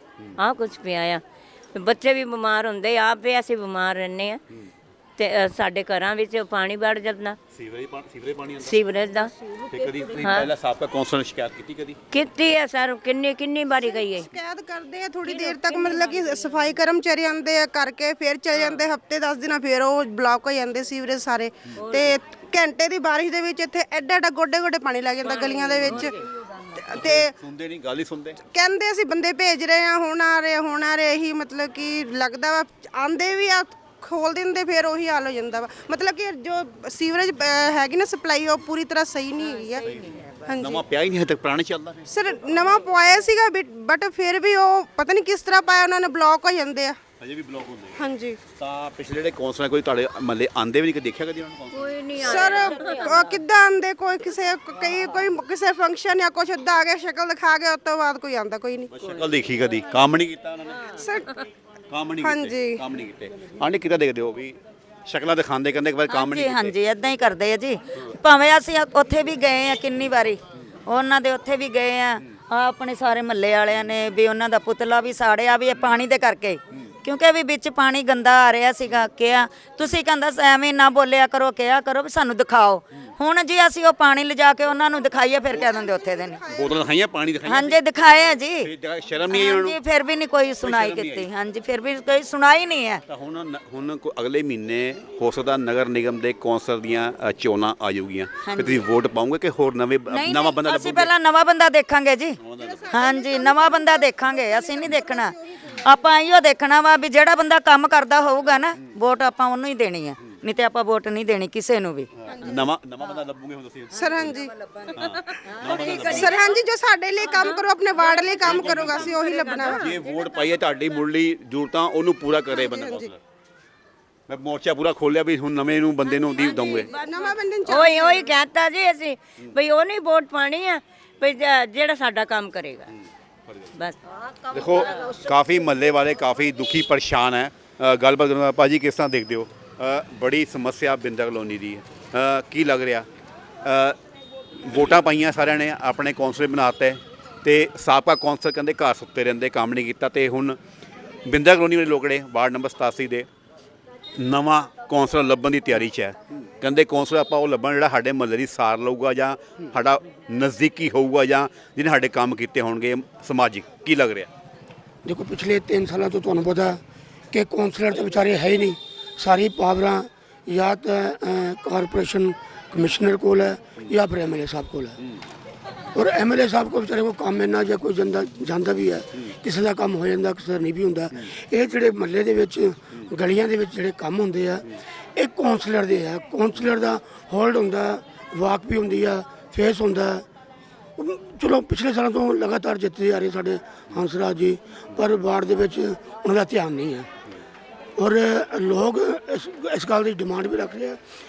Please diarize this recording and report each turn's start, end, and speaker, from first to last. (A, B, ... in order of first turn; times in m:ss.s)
0:00.4-0:01.2 A
0:01.8-0:04.4 A
0:05.2-0:07.4 A
0:07.5-0:08.8 B
0:08.6-0:09.3 A
0:09.7-0:12.0 B
0:10.2-0:10.5 A
0:12.1-0:14.3 A
0:13.8-0:26.2 C
0:15.3-0:16.1 A
0:21.8-0:22.1 A
0:25.3-0:26.1 A
0:26.8-0:27.3 C
0:26.9-0:28.4 B
0:28.5-0:39.8 C
0:39.5-0:40.5 D
0:39.9-0:42.1 B
0:40.5-0:40.8 C
0:42.1-0:47.0 C
0:47.2-0:48.0 B
0:48.0-0:48.4 C
0:48.6-0:51.9 B
0:51.7-0:53.4 A
0:52.2-0:58.9 C
0:58.9-1:01.0 B
1:01.0-1:01.3 C
1:01.9-1:06.8 B
1:02.2-1:02.8 C
1:06.1-1:26.4 D
1:25.5-1:26.8 C
1:26.5-1:27.8 B
1:27.4-1:28.7 D
1:28.6-1:29.8 B
1:29.3-1:33.0 D
1:30.6-1:31.3 B
1:33.1-1:41.1 B
1:38.4-1:38.8 D
1:40.1-1:52.1 D
1:42.4-1:42.9 B
1:42.6-1:45.9 C
1:52.2-1:54.4 B
1:52.4-1:52.6 C
1:53.9-1:54.5 C
1:55.0-1:56.3 B
1:55.7-1:56.3 A
1:56.0-1:59.9 C
1:57.3-1:57.6 A
1:58.3-1:59.8 A
1:58.4-1:59.2 B
1:59.7-2:03.2 B
2:02.5-2:03.1 C
2:04.3-2:06.9 B
2:06.6-2:12.9 A
2:06.7-2:08.3 C
2:14.5-2:23.1 B
2:23.6-2:24.0 B
2:24.6-2:30.6 B
2:31.2-2:33.3 B
2:34.2-2:44.3 B
2:45.0-2:46.8 E
2:47.3-2:55.0 E
2:56.0-3:04.6 E
3:05.2-3:10.2 E
3:11.0-3:17.1 E
3:18.0-3:21.0 E